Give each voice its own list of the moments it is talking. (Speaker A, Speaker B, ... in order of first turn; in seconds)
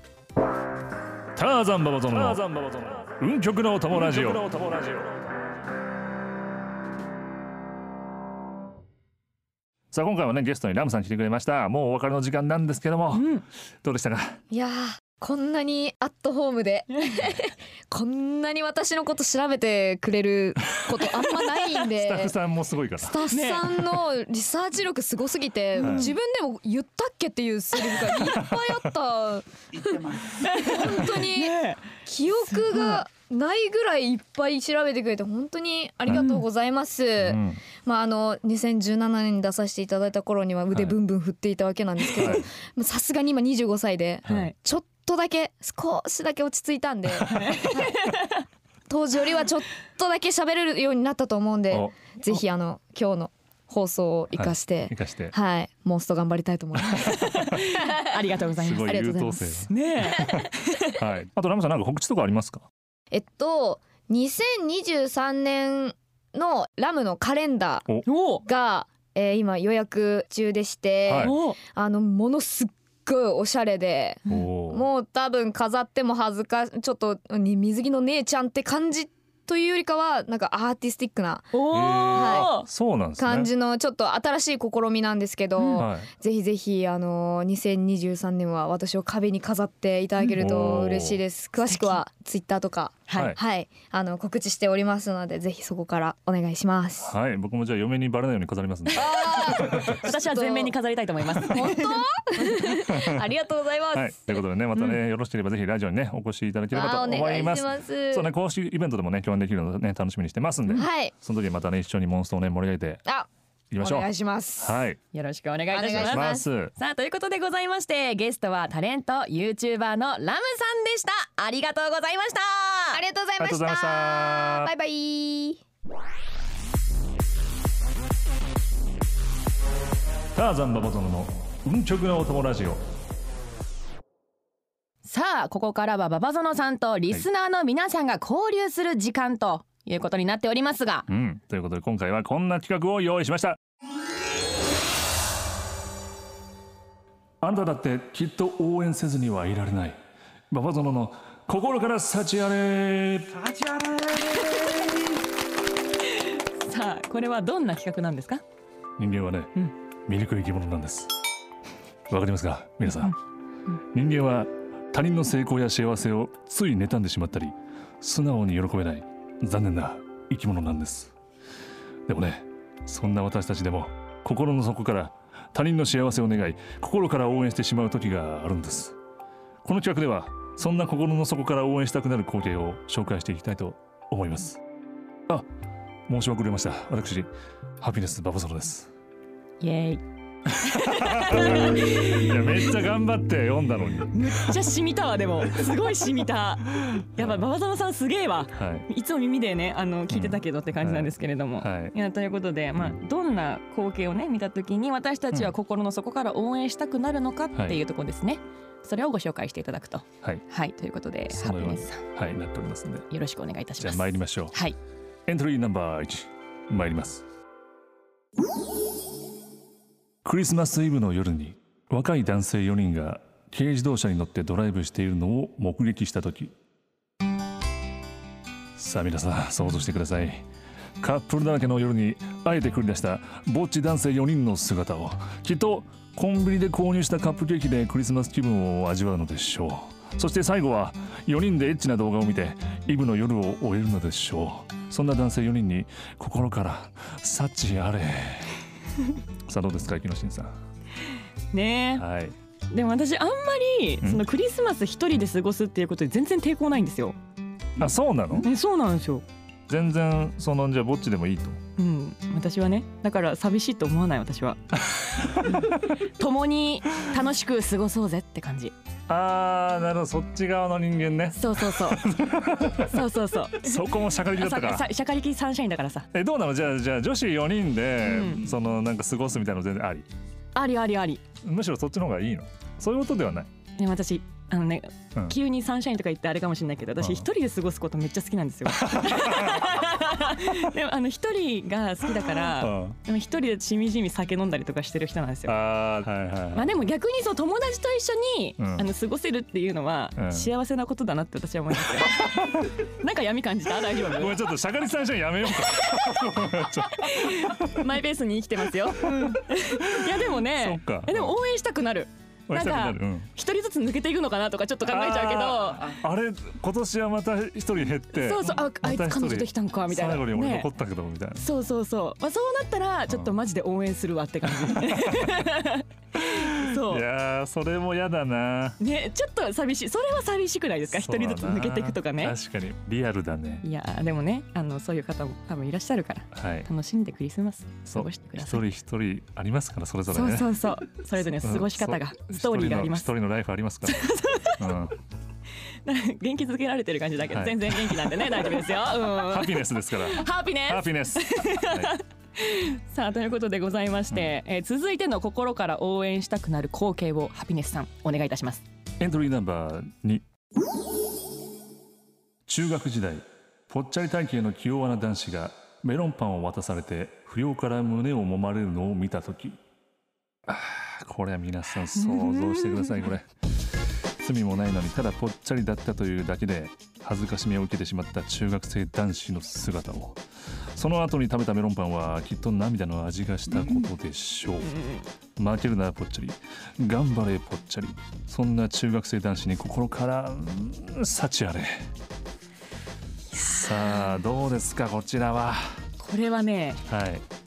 Speaker A: 1.4-5.3, 9.9-13.3, 13.8-14.4, 21.9-23.2, 25.8-26.1, 28.1-28.8, 37.2-37.6, 42.2-42.5, 54.3-55.3, 56.8-57.6, 58.6-62.7, 71.1-71.4, 74.3-74.9, 81.7-83.5, 85.8-86.1, 90.4-91.2, 97.0-100.1, 102.8-103.3, 103.9-113.0, 113.7-114.1, 114.6-115.0, 115.9-116.7, 123.4-124.7, 130.3-132.8, 141.1-143.6, 147.4-150.0, 150.5-154.9, 159.0-159.5, 160.1-161.1, 162.1-163.1, 163.9-171.1, 172.1-179.0, 179.6-184.6, 186.1-187.3, 187.8-188.9, 190.5-194.5, 197.2-197.4, 198.5-198.9, 200.1-201.9, 202.8-203.0, 207.6-207.8, 211.3-213.1, 213.8-214.6, 215.3-217.2, 220.2-226.5, 228.8-230.4, 231.0-248.6, 249.5-250.6, 252.0-252.3, 257.8-258.5, 259.7-261.6, 264.9-265.8, 269.1-273.0, 273.5-274.9, 276.1-280.1, 281.4-283.5, 287.0-287.3, 288.7-289.9, 292.1-293.0, 295.5-296.9, 298.6-298.9, 300.2-300.5, 301.9-302.8, 304.1-308.0, 308.8-311.4, 312.5-313.3, 314.9-321.4, 323.1-323.4, 324.6-325.5, 326.2-328.8, 330.9-333.7, 336.3-336.7, 337.9-340.5, 341.4-344.9, 347.3-352.0, 359.0-360.2, 362.5-369.6, 370.5-380.2, 380.7-384.8, 385.4-391.9, 393.4-395.8, 396.9-397.2
Speaker B: 13.1-13.4, 23.3-23.7, 25.8-26.1, 30.3-31.9, 32.5-33.0, 36.1-36.4, 44.3-44.5, 47.2-48.4, 57.0-59.0, 59.7-61.0, 68.1-68.4, 71.2-71.6, 81.5-82.7, 85.6-85.8, 91.7-92.0, 93.1-93.4, 100.0-102.6, 104.8-105.0, 115.1-123.0, 135.0-141.1, 154.3-154.9, 156.0-158.4, 189.6-190.0, 190.6-192.7, 194.1-212.0, 213.1-214.8, 251.5-252.1, 252.7-257.2, 258.4-259.2, 261.8-264.6, 265.4-268.7, 271.4-272.0, 272.8-276.1, 278.0-278.5, 280.6-281.2, 283.8-295.6, 296.5-304.4, 305.7-306.1, 306.9-315.9, 318.1-320.7, 321.4-327.1, 328.8-332.4, 333.6-338.6, 340.1-343.1, 343.9-344.6, 345.9-358.6, 372.0-373.1, 384.6-385.1, 393.3-394.2, 396.0-396.9
Speaker C: 14.5-22.4, 23.0-48.2, 48.9-59.7, 63.1-67.9, 68.5-82.5, 83.2-97.1, 98.9-100.7, 101.4-104.4, 106.7-108.3, 110.7-111.1, 113.8-114.8, 115.7-116.5, 122.9-125.6